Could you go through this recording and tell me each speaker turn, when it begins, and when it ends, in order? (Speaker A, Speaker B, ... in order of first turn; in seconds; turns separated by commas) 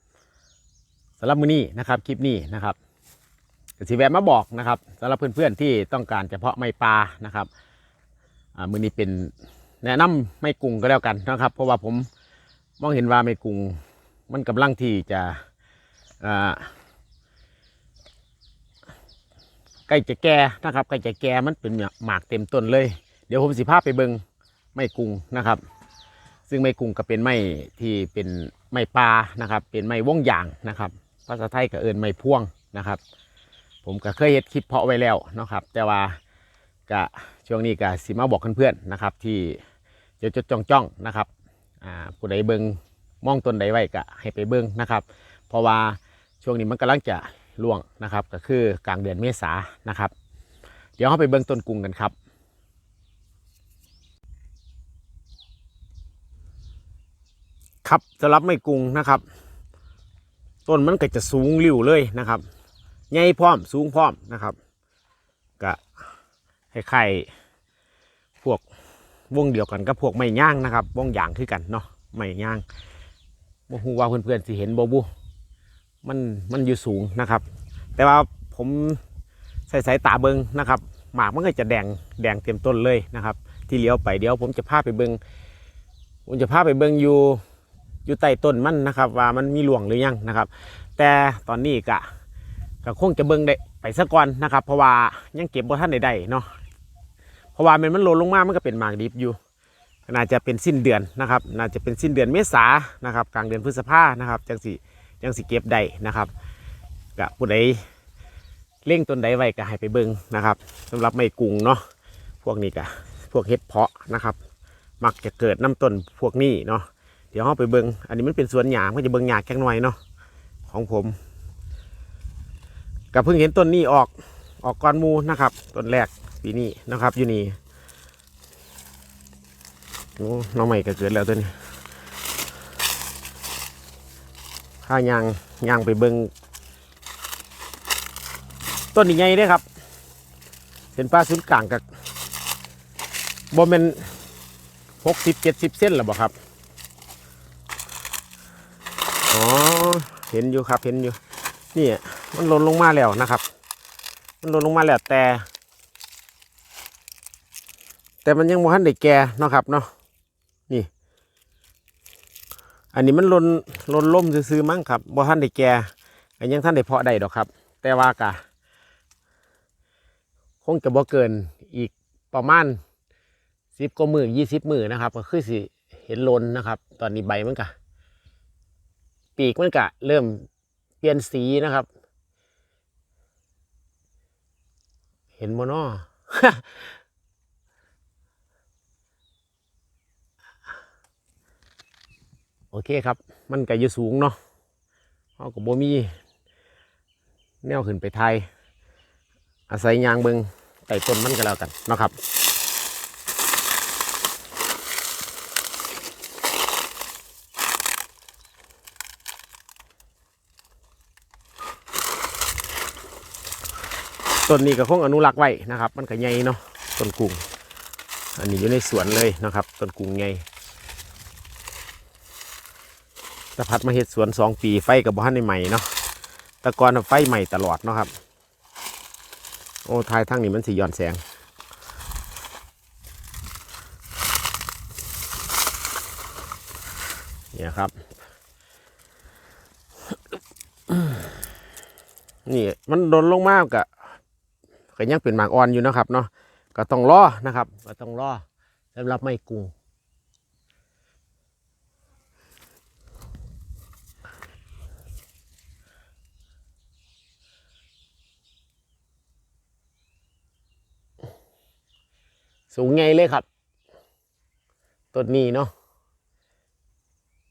Speaker A: 1.2-2.8, Speaker A: 3.8-7.5, Speaker A: 8.6-9.3, Speaker A: 9.8-12.1, Speaker A: 12.8-13.8, Speaker A: 14.3-15.4, Speaker A: 16.2-16.7, Speaker A: 19.9-24.2, Speaker A: 24.7-25.6, Speaker A: 26.5-33.0, Speaker A: 33.8-36.2, Speaker A: 36.9-39.6, Speaker A: 40.2-41.3, Speaker A: 41.8-50.1, Speaker A: 51.0-52.1, Speaker A: 57.8-59.2, Speaker A: 60.6-62.4, Speaker A: 63.1-64.5, Speaker A: 66.7-67.3, Speaker A: 69.3-72.6, Speaker A: 73.7-75.1, Speaker A: 76.0-77.4, Speaker A: 78.0-79.0, Speaker A: 79.7-85.2, Speaker A: 86.3-87.4, Speaker A: 88.0-92.1, Speaker A: 92.8-96.5, Speaker A: 97.5-99.4, Speaker A: 100.1-106.3, Speaker A: 107.2-107.8, Speaker A: 108.8-111.8, Speaker A: 112.4-114.4, Speaker A: 115.0-120.0, Speaker A: 120.7-121.1, Speaker A: 123.1-127.5, Speaker A: 130.2-131.5, Speaker A: 134.8-136.3, Speaker A: 138.9-139.6, Speaker A: 140.9-141.8, Speaker A: 143.5-144.1, Speaker A: 145.0-146.3, Speaker A: 149.3-151.2, Speaker A: 151.7-153.4, Speaker A: 154.4-155.5, Speaker A: 158.2-159.9, Speaker A: 162.9-168.4, Speaker A: 170.6-172.8, Speaker A: 173.8-177.7, Speaker A: 179.4-180.5, Speaker A: 181.0-181.9, Speaker A: 185.3-186.9, Speaker A: 192.7-194.4, Speaker A: 195.4-196.1, Speaker A: 197.6-198.4, Speaker A: 199.7-202.2, Speaker A: 214.5-217.4, Speaker A: 218.3-220.4, Speaker A: 223.6-225.9, Speaker A: 226.6-228.1, Speaker A: 229.8-231.2, Speaker A: 237.5-237.9, Speaker A: 242.4-243.9, Speaker A: 244.9-249.7, Speaker A: 262.7-263.4, Speaker A: 265.1-265.7